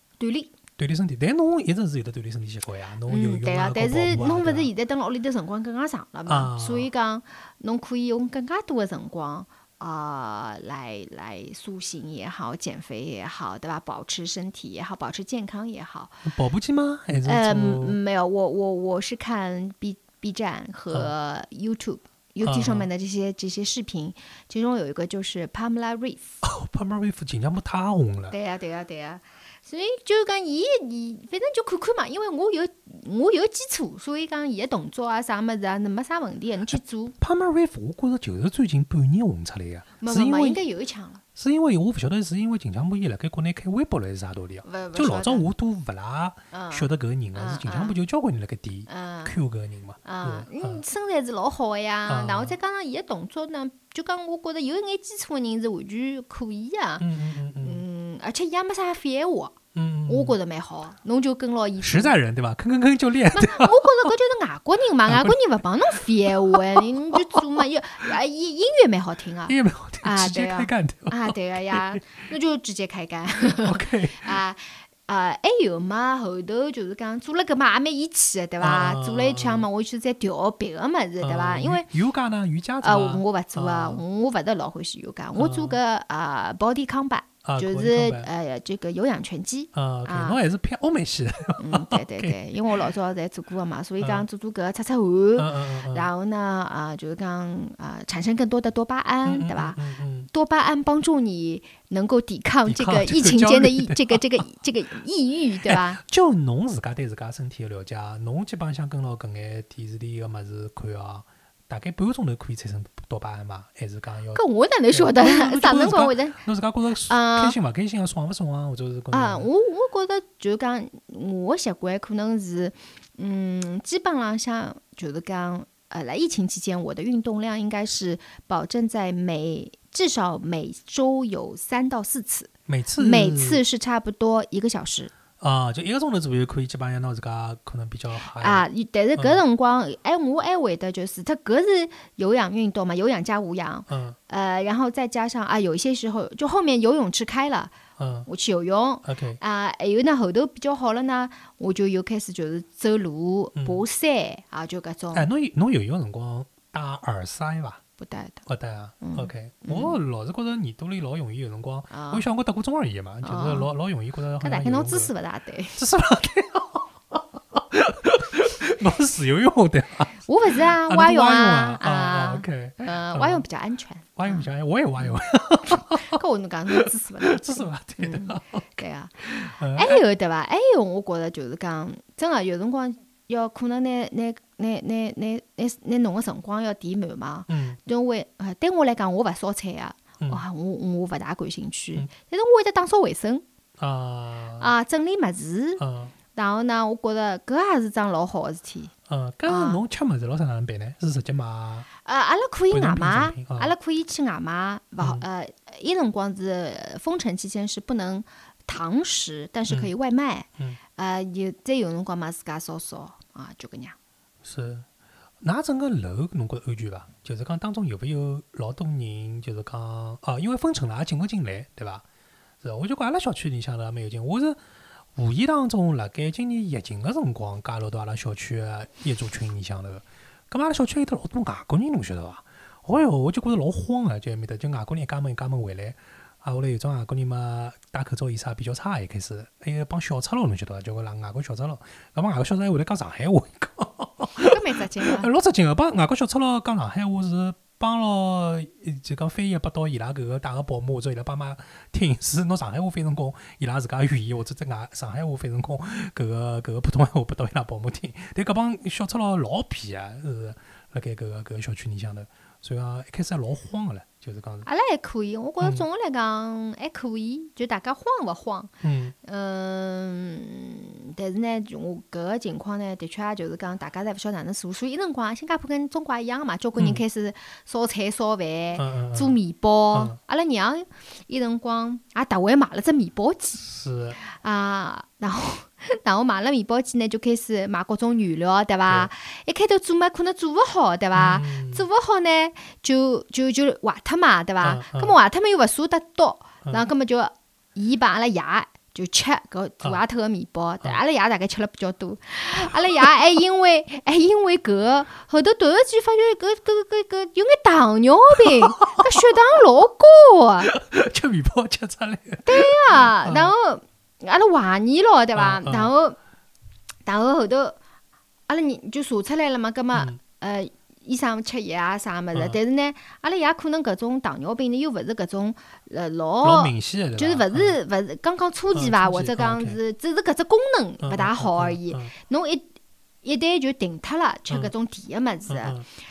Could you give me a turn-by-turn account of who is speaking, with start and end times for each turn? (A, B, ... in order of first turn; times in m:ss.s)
0:00.2-0:00.5 A
0:00.8-0:04.7 B
0:03.1-0:16.3 A
0:06.3-0:06.9 B
0:16.2-0:18.0 B
0:17.2-0:26.4 A
0:22.4-0:22.9 B
0:26.4-0:28.4 B
0:28.3-0:37.2 A
0:36.7-0:40.6 B
0:40.0-0:41.2 A
0:41.4-0:50.8 B
0:44.6-0:45.5 A
0:46.5-0:48.0 A
0:48.9-0:49.4 A
0:50.0-0:57.1 A
0:52.1-0:52.6 B
0:57.0-0:57.8 B
0:57.6-1:02.2 A
0:59.8-1:00.4 B
1:01.8-1:04.1 B
1:03.3-1:21.9 A
1:05.1-1:05.4 B
1:05.9-1:07.4 B
1:09.5-1:12.0 B
1:13.6-1:14.3 B
1:18.6-1:19.7 B
1:21.2-1:24.0 B
1:22.8-1:30.4 A
1:25.4-1:25.8 B
1:27.4-1:28.3 B
1:29.7-1:32.4 B
1:31.6-1:39.8 A
1:34.0-1:34.3 B
1:35.4-1:36.1 B
1:39.2-1:40.3 B
1:40.3-1:46.0 A
1:42.7-1:44.2 B
1:45.7-1:59.5 B
1:54.4-1:56.4 A
1:57.1-1:57.6 A
1:59.1-2:15.1 A
2:12.7-2:13.6 B
2:15.4-2:19.4 B
2:18.4-2:27.8 A
2:23.9-2:24.2 B
2:28.0-2:28.3 B
2:28.3-2:35.3 A
2:29.0-2:29.4 B
2:33.6-2:33.8 B
2:35.1-2:37.8 B
2:38.0-2:38.4 A
2:38.5-2:45.1 B
2:39.0-2:40.0 A
2:41.9-2:42.3 A
2:43.2-2:43.7 A
2:44.4-2:45.8 A
2:45.8-2:53.4 B
2:50.3-2:54.5 A
2:54.2-3:00.0 B
2:55.7-3:13.4 A
3:07.5-3:07.8 B
3:13.8-3:14.7 B
3:14.6-3:15.8 A
3:15.8-3:16.1 B
3:16.4-3:18.9 A
3:19.1-3:21.9 B
3:19.5-3:19.8 A
3:22.0-3:34.0 A
3:22.7-3:23.8 B
3:34.4-3:34.9 B
3:35.4-3:42.0 B
3:42.6-3:44.6 B
3:45.2-4:24.7 B
4:04.4-4:05.3 A
4:24.6-4:28.7 A
4:28.8-4:29.2 B
4:29.2-4:43.7 A
4:36.8-4:37.0 B
4:38.8-4:39.4 B
4:43.6-4:44.2 B
4:44.2-5:10.7 A
4:51.2-4:51.9 B
4:54.6-4:55.2 B
5:08.4-5:09.2 B
5:10.6-5:13.5 B
5:12.4-5:16.2 A
5:15.4-5:15.9 B
5:17.1-5:17.8 A
5:18.5-5:32.7 A
5:19.9-5:20.2 B
5:26.4-5:27.8 B
5:28.7-5:29.8 B
5:31.0-5:32.1 B
5:33.2-5:35.8 A
5:35.5-5:35.9 B